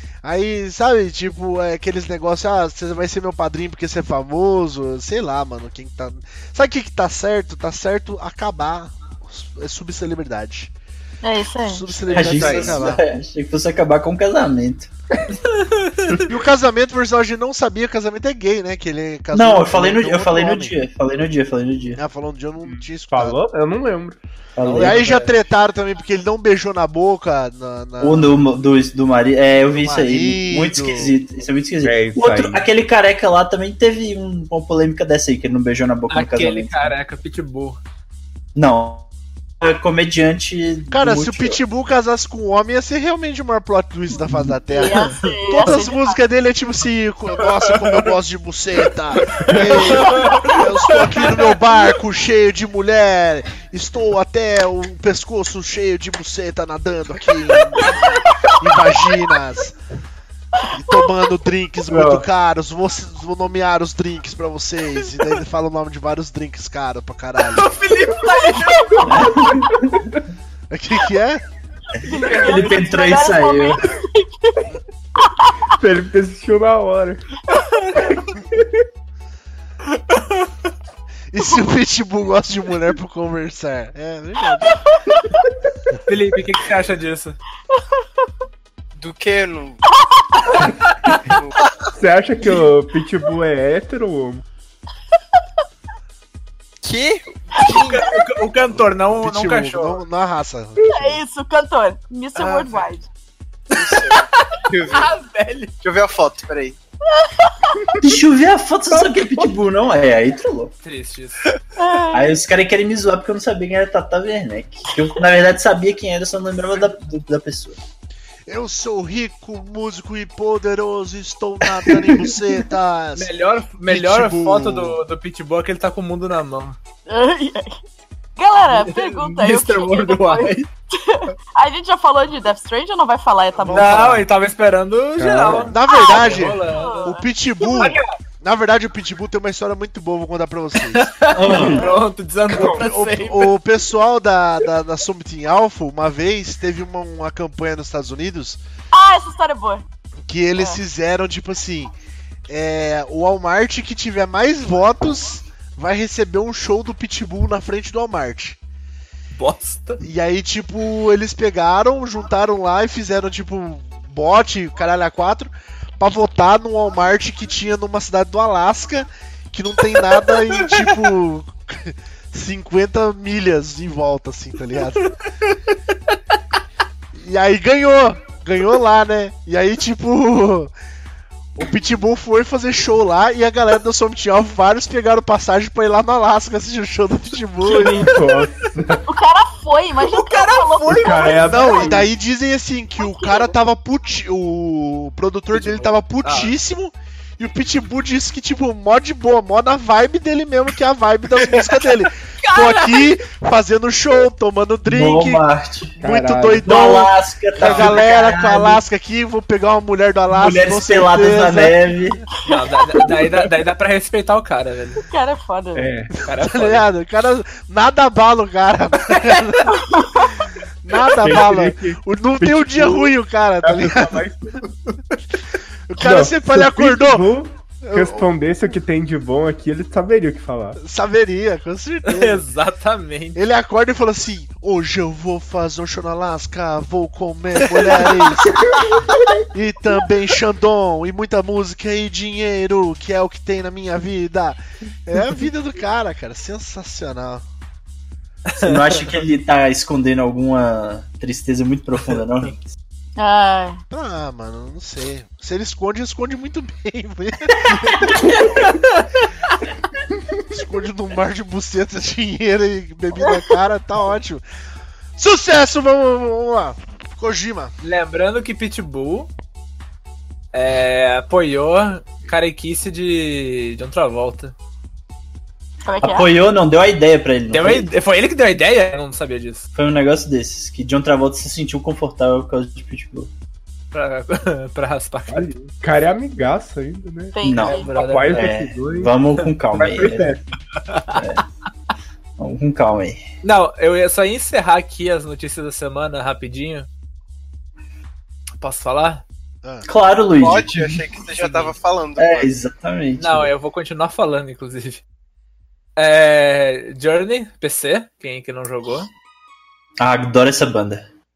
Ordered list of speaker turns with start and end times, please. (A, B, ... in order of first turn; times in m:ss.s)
0:00.2-0:10.7 A
0:11.2-0:12.0 B
0:11.6-0:13.0 A
0:12.1-0:14.9 C
0:12.4-0:12.8 D
0:15.4-0:16.3 E
0:16.3-0:20.8 A
0:19.3-0:22.0 C
0:22.0-0:23.4 A
0:22.7-0:24.2 D
0:24.6-0:25.1 C
0:24.6-0:25.3 E
0:24.8-0:28.4 A
0:28.0-0:36.9 C
0:29.8-0:31.2 A
0:31.8-0:32.7 D
0:36.1-0:37.8 E
0:38.6-0:39.1 C
0:39.6-0:41.6 C
0:40.9-0:58.0 A
0:44.7-0:46.2 B
0:47.7-0:48.0 E
0:49.9-0:51.3 E
0:58.6-0:59.8 A
1:00.7-1:07.8 A
1:01.9-1:02.2 D
1:07.5-1:09.4 E
1:08.2-1:09.3 B
1:09.1-1:10.0 C
1:10.7-1:11.4 A
1:12.0-1:14.6 B
1:12.2-1:13.8 C
1:12.2-1:13.0 E
1:15.2-1:15.5 B
1:15.8-1:17.2 D
1:17.5-1:18.0 E
1:20.0-1:20.5 E
1:21.3-1:24.9 A
1:24.9-1:25.2 B
1:26.1-1:27.4 E
1:29.0-1:29.8 F
1:30.2-1:30.7 B
1:31.4-1:31.7 F
1:32.0-1:34.4 D
1:36.8-1:37.2 F
1:37.6-1:40.0 E
1:38.7-1:41.2 A
1:40.8-1:43.1 B
1:43.7-1:45.1 F
1:43.8-1:45.7 E
1:45.8-1:46.8 F
1:47.1-1:48.0 B
1:48.0-1:50.7 C
1:48.9-1:49.5 D
1:50.8-1:51.4 E
1:51.8-1:52.4 B
1:52.1-1:57.8 C
1:58.5-2:03.3 A
2:03.2-2:06.8 E
2:03.9-2:05.0 A
2:07.1-2:07.8 B
2:08.4-2:14.2 B
2:08.7-2:10.7 E
2:13.6-2:14.2 A
2:13.7-2:17.1 E
2:15.2-2:15.7 D
2:15.7-2:21.1 A
2:15.8-2:17.2 B
2:17.7-2:18.1 E
2:20.9-2:23.5 E
2:21.3-2:21.9 C
2:21.5-2:22.0 B
2:22.5-2:28.6 A
2:28.9-2:29.8 B
2:30.3-2:31.9 A
2:32.5-2:38.6 A
2:39.4-2:40.0 E
2:40.0-2:55.1 A
2:57.1-3:00.7 A
3:01.6-3:08.2 A
3:07.6-3:09.0 D
3:07.7-3:08.2 E
3:09.1-3:12.0 B
3:10.0-3:11.5 E
3:10.9-3:12.1 D
3:11.5-3:25.4 A
3:13.0-3:13.5 B
3:15.5-3:16.5 E
3:22.4-3:23.1 E
3:24.9-3:26.0 C
3:26.0-3:26.8 D
3:26.0-3:31.8 A
3:26.6-3:28.8 C
3:30.3-3:32.2 C
3:32.4-3:35.0 E
3:35.1-3:35.9 B
3:35.8-3:36.1 D
3:36.2-3:39.8 A
3:36.3-3:36.9 E
3:39.8-3:40.0 B
3:40.8-3:44.3 A
3:41.2-3:44.8 D
3:45.9-3:47.3 A
3:46.0-3:50.8 D
3:47.8-3:48.3 A
3:50.8-3:52.4 A
3:52.1-3:53.4 E
3:53.4-3:58.6 A
3:59.5-4:07.4 A
4:08.5-4:09.1 E
4:08.6-4:12.7 C
4:13.2-4:13.8 B
4:13.9-4:18.3 A
4:18.6-4:19.5 E
4:20.5-4:24.4 A
4:25.2-4:27.7 A
4:27.8-4:29.3 E
4:30.5-4:34.5 E
4:35.8-4:36.3 B
4:36.0-4:37.9 C
4:37.5-4:39.7 E
4:39.8-4:43.3 C
4:43.9-4:45.5 E
4:45.3-4:47.4 D
4:47.3-4:47.9 B
4:47.4-4:47.8 C
4:47.6-4:48.5 E
4:47.9-4:50.4 D
4:48.3-4:50.4 C
4:50.9-4:51.2 E
4:51.1-4:51.4 C
4:52.4-4:53.2 C
4:53.4-4:56.9 E
4:58.6-4:59.2 E
4:59.9-5:01.0 C
5:00.4-5:02.5 F
5:01.4-5:01.7 E
5:02.2-5:03.5 C
5:03.2-5:05.0 E
5:06.0-5:09.1 E
5:10.0-5:11.1 C